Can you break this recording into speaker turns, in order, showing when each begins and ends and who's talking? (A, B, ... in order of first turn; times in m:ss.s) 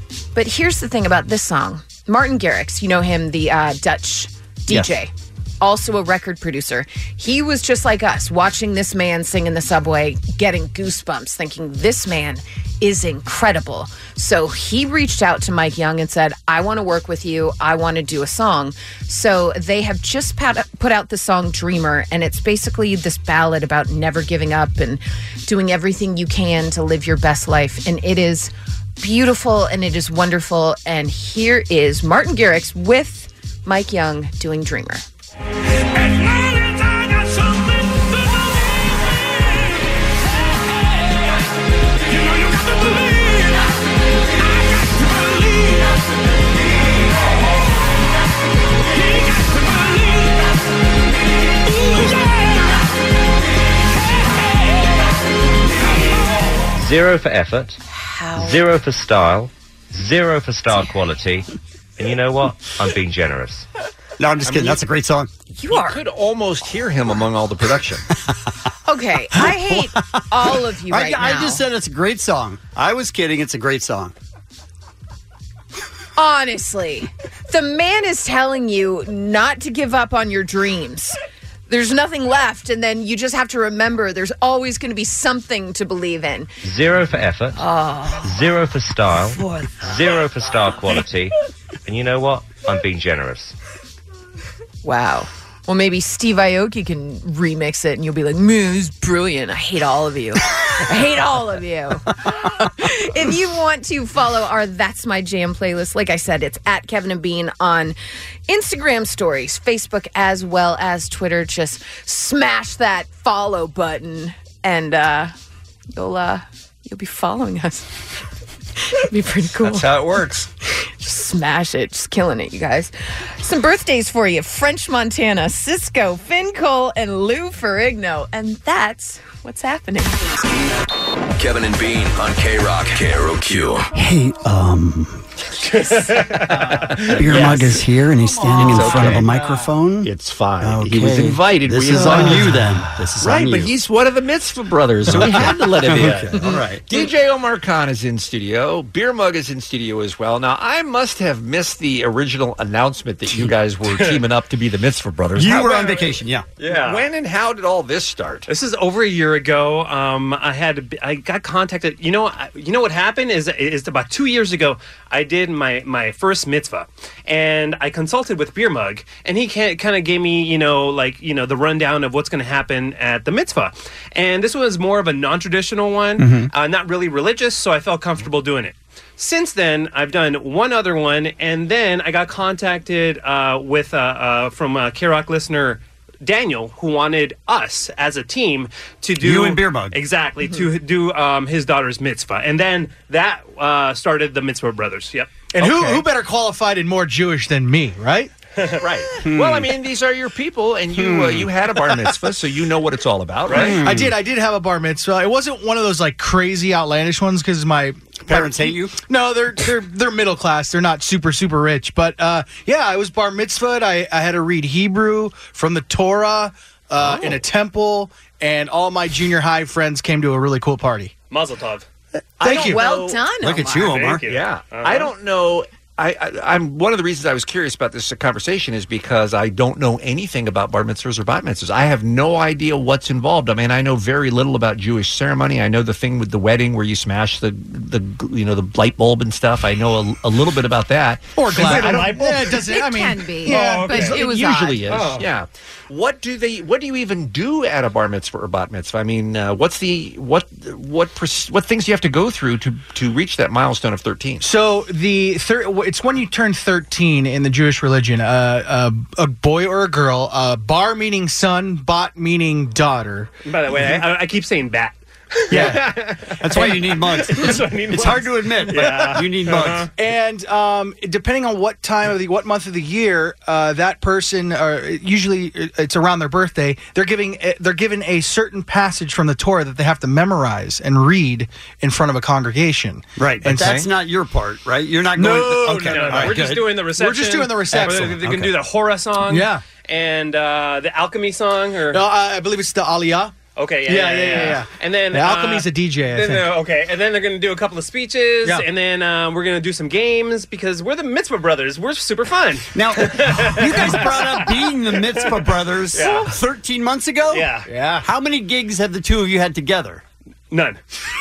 0:00.3-0:35.0 A
0:56.8-0:57.8 B
0:58.1-0:58.6 A
0:58.3-1:01.5 B
1:02.0-1:03.6 B
1:04.2-1:05.3 C
1:04.4-1:04.8 D
1:05.5-1:06.0 A
1:05.7-1:08.1 D
1:08.8-1:11.6 A
1:10.9-1:14.1 C
1:16.2-1:21.2 A
1:21.7-1:26.5 A
1:26.6-1:27.6 B
1:27.5-1:28.3 A
1:28.2-1:31.3 B
1:29.4-1:29.7 A
1:31.8-1:33.5 B
1:34.8-1:47.9 A
1:48.5-1:55.3 A
1:56.0-1:57.9 A
1:58.9-1:59.9 A
1:59.6-2:00.5 D
2:00.8-2:10.2 A
2:11.4-2:13.9 E
2:13.9-2:15.2 C
2:15.7-2:16.2 F
2:17.1-2:23.7 C
2:17.3-2:17.8 D
2:18.5-2:19.3 D
2:18.6-2:18.9 G
2:20.0-2:38.5 D
2:25.0-2:26.8 C
2:35.3-2:36.4 C
2:36.6-2:37.0 F
2:38.5-3:15.4 F
2:56.2-2:56.5 C
3:09.2-3:10.0 C
3:15.5-3:18.3 G
3:15.6-3:16.0 D
3:18.8-3:23.9 D
3:19.2-3:19.7 C
3:20.9-3:21.5 C
3:23.5-3:24.1 C
3:23.8-3:41.1 G
3:28.2-3:29.0 C
3:37.0-3:37.4 D
3:41.3-3:41.8 F
3:42.4-3:43.2 D
3:42.4-3:42.8 G
3:42.4-3:44.1 A
3:43.4-3:44.2 C
3:43.9-3:45.1 F
3:44.2-4:02.6 D
4:01.4-4:04.4 G
4:02.6-4:05.0 A
4:03.7-4:04.1 F
4:04.0-4:14.5 D
4:14.4-4:23.3 G
4:23.4-4:29.9 F
4:25.5-4:29.9 C
4:30.0-4:43.8 G
4:43.2-4:46.7 C
4:43.4-4:43.9 D
4:45.1-4:46.4 G
4:45.9-4:52.0 F
4:46.9-4:48.2 G
4:47.9-4:48.6 C
4:49.3-4:49.6 G
4:51.9-4:53.4 G
4:53.6-5:06.3 F
4:53.9-4:56.5 G
5:02.7-5:10.0 C
5:07.3-5:07.7 F
5:07.7-5:08.1 G
5:10.5-5:10.8 F